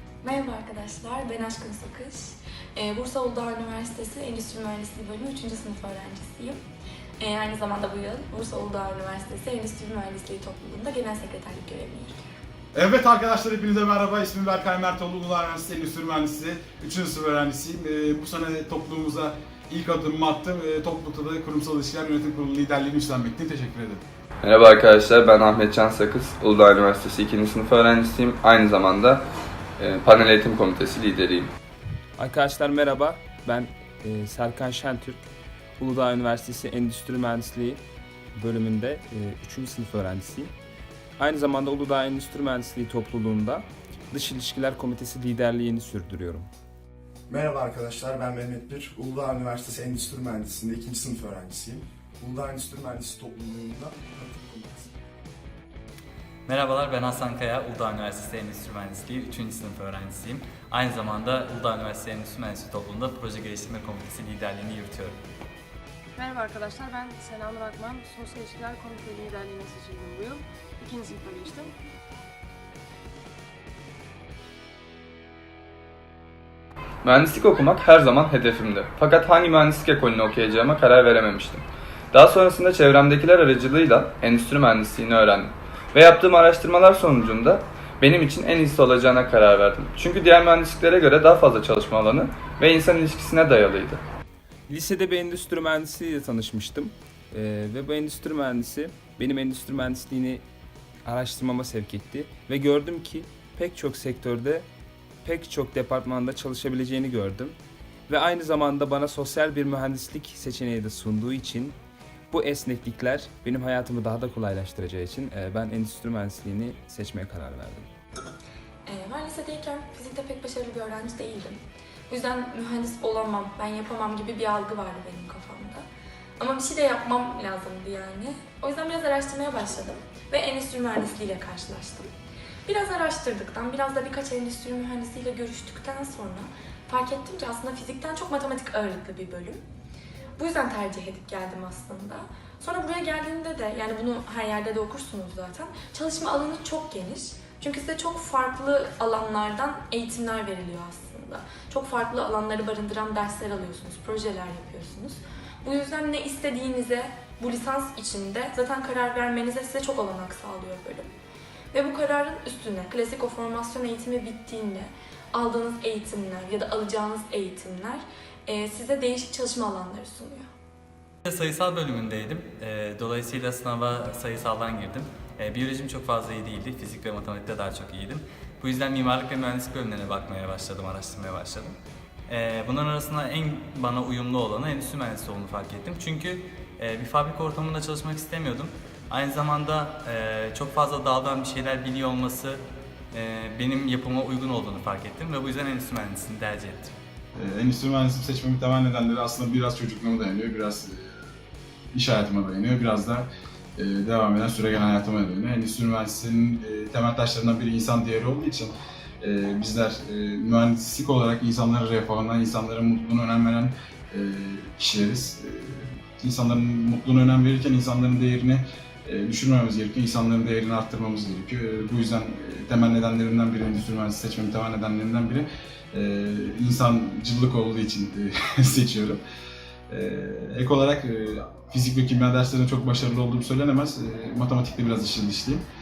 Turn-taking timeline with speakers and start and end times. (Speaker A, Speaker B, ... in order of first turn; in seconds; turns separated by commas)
Speaker A: 0.2-6.6, Speaker A: 7.2-12.3, Speaker B: 12.7-24.0, Speaker C: 24.4-29.2, Speaker C: 29.8-31.5, Speaker D: 32.2-35.2, Speaker D: 35.8-37.8, Speaker D: 38.4-40.5, Speaker D: 41.2-46.5, Speaker E: 47.3-55.0, Speaker F: 56.5-65.2, Speaker G: 66.2-71.7, Speaker C: 77.0-94.0, Speaker D: 94.7-100.4, Speaker D: 101.0-104.7, Speaker D: 105.2-107.6, Speaker D: 108.1-111.8, Speaker D: 112.3-117.9, Speaker A: 118.8-125.8, Speaker A: 126.4-132.1, Speaker A: 132.7-139.6, Speaker A: 140.4-161.1, Speaker A: 161.7-170.4, Speaker F: 171.2-181.8, Speaker F: 182.3-196.9, Speaker B: 197.4-201.1, Speaker B: 201.9-229.2, Speaker B: 229.9-235.6